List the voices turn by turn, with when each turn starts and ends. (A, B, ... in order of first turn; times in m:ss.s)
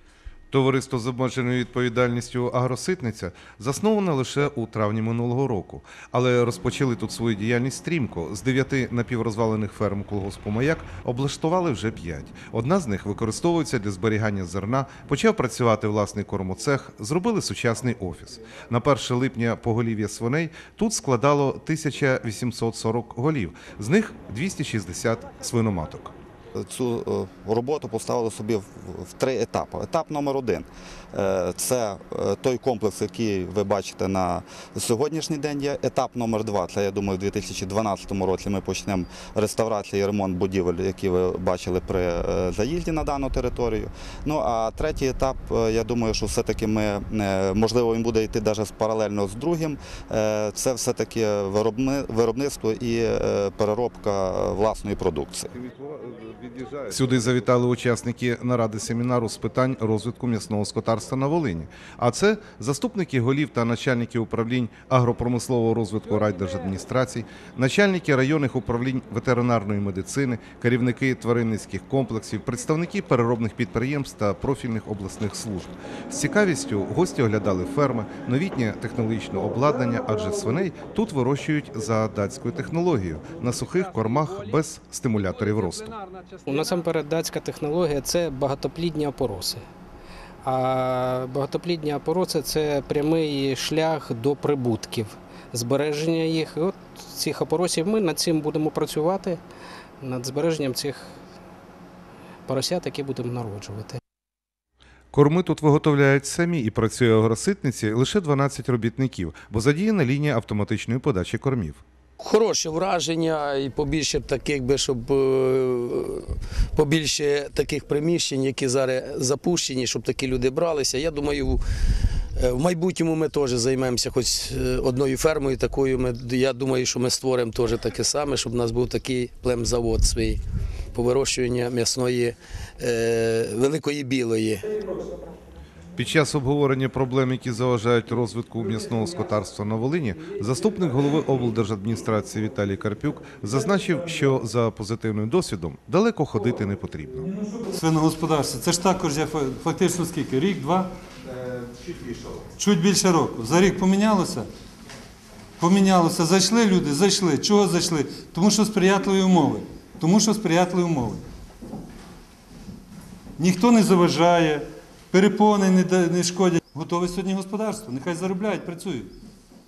0:00.5-0:26.1 A
0:26.6-0:55.5 B
0:55.6-1:26.0 A
1:26.4-1:29.6 C
1:30.4-1:39.4 C
1:40.0-1:41.1 C
1:42.5-1:44.0 C
1:45.1-1:51.8 A
1:52.2-2:01.6 D
2:02.3-2:10.4 D
2:10.9-2:14.6 D
2:16.0-2:27.3 A
2:27.7-2:30.9 E
2:32.6-2:34.5 E
2:35.6-2:41.2 E
2:43.4-2:49.1 E